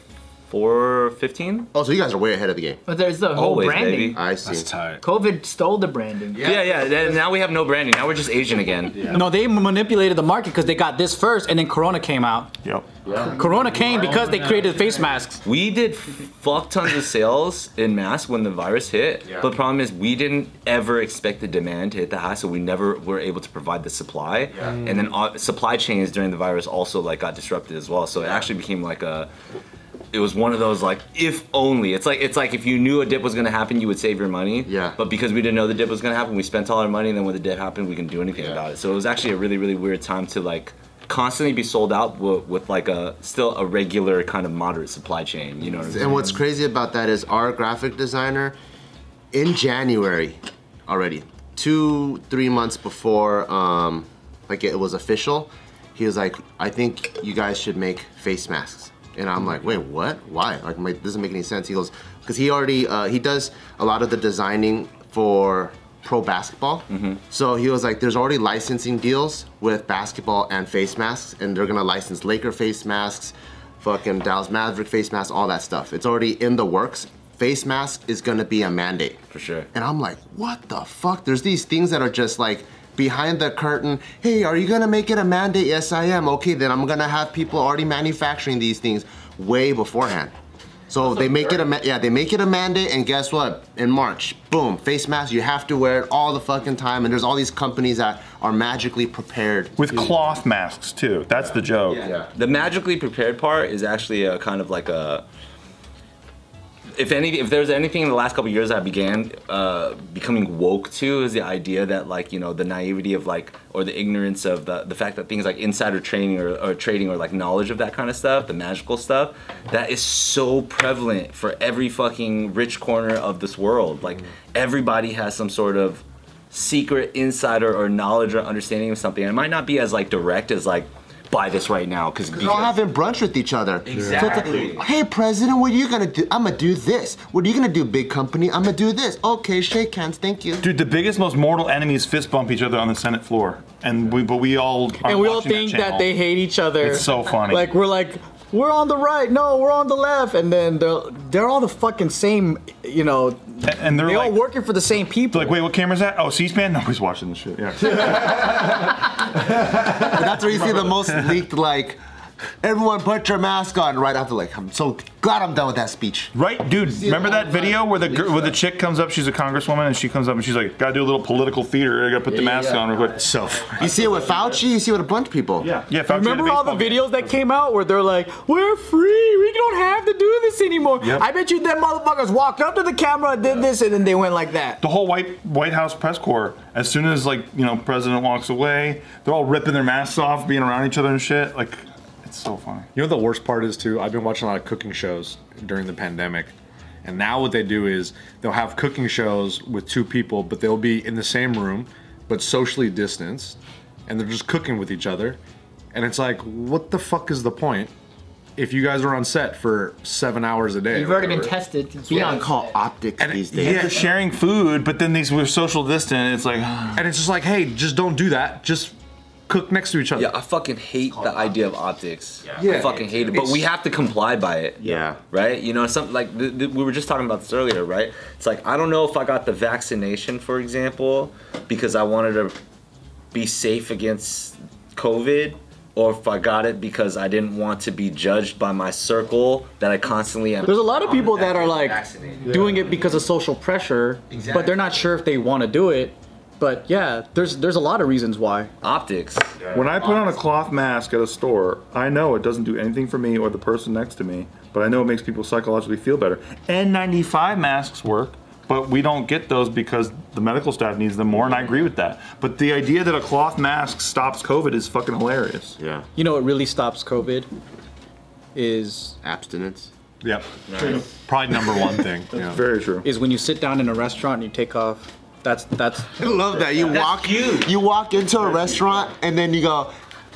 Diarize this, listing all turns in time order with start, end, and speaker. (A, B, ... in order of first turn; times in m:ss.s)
0:00.5-0:01.7 A
0:01.7-0:02.8 B
0:02.9-0:04.2 C
0:03.3-0:04.2 A
0:04.1-0:04.7 B
0:04.4-0:05.0 D
0:05.0-0:06.5 C
0:06.4-0:07.2 B
0:06.4-0:09.2 A
0:09.1-0:12.5 E
0:13.1-0:13.3 B
0:13.2-0:15.4 E
0:15.4-0:29.3 A
0:30.1-0:46.1 A
0:34.6-0:35.0 B
0:45.9-0:48.6 B
0:49.3-1:19.2 B
1:06.9-1:07.2 A
1:19.3-1:19.7 A
1:19.7-1:30.3 B
1:30.9-1:40.1 B
1:39.8-1:42.0 F
1:41.9-1:45.2 A
1:46.9-2:12.8 A
2:12.3-2:20.7 B
2:13.9-2:14.8 A
2:13.9-2:14.3 D
2:20.6-2:26.1 F
2:25.0-2:35.6 E
2:26.8-2:27.7 F
2:33.6-2:34.4 F
2:35.3-2:38.6 F
2:39.9-2:42.0 B
2:42.6-2:46.3 B
2:46.4-2:53.3 F
2:46.9-2:48.5 B
2:52.3-2:52.8 B
2:53.2-2:54.4 D
2:53.8-2:55.7 B
2:55.6-2:57.1 F
2:56.1-3:04.8 E
3:04.8-3:12.9 F
3:13.0-3:16.5 D
3:17.0-3:25.4 D
3:25.9-3:27.9 D
3:28.6-3:31.5 D
3:30.9-3:32.8 C
3:32.1-3:34.0 B
3:33.2-3:34.0 D
3:33.6-3:37.1 F
3:37.0-3:38.9 D
3:39.5-3:40.3 D
3:40.2-3:52.6 A
3:42.6-3:43.6 D
3:44.8-3:45.2 B
3:53.3-4:02.7 A
4:00.6-4:08.7 E
4:04.3-4:04.9 A
4:08.8-4:09.6 A
4:09.7-4:25.8 F
4:25.8-4:26.1 B
4:26.2-4:27.5 E
4:28.6-4:29.2 E
4:29.2-4:29.9 B
4:30.2-4:32.6 D
4:30.7-4:31.1 A
4:32.3-4:33.1 F
4:33.0-4:36.2 E
4:36.2-4:39.9 B
4:36.8-4:37.7 A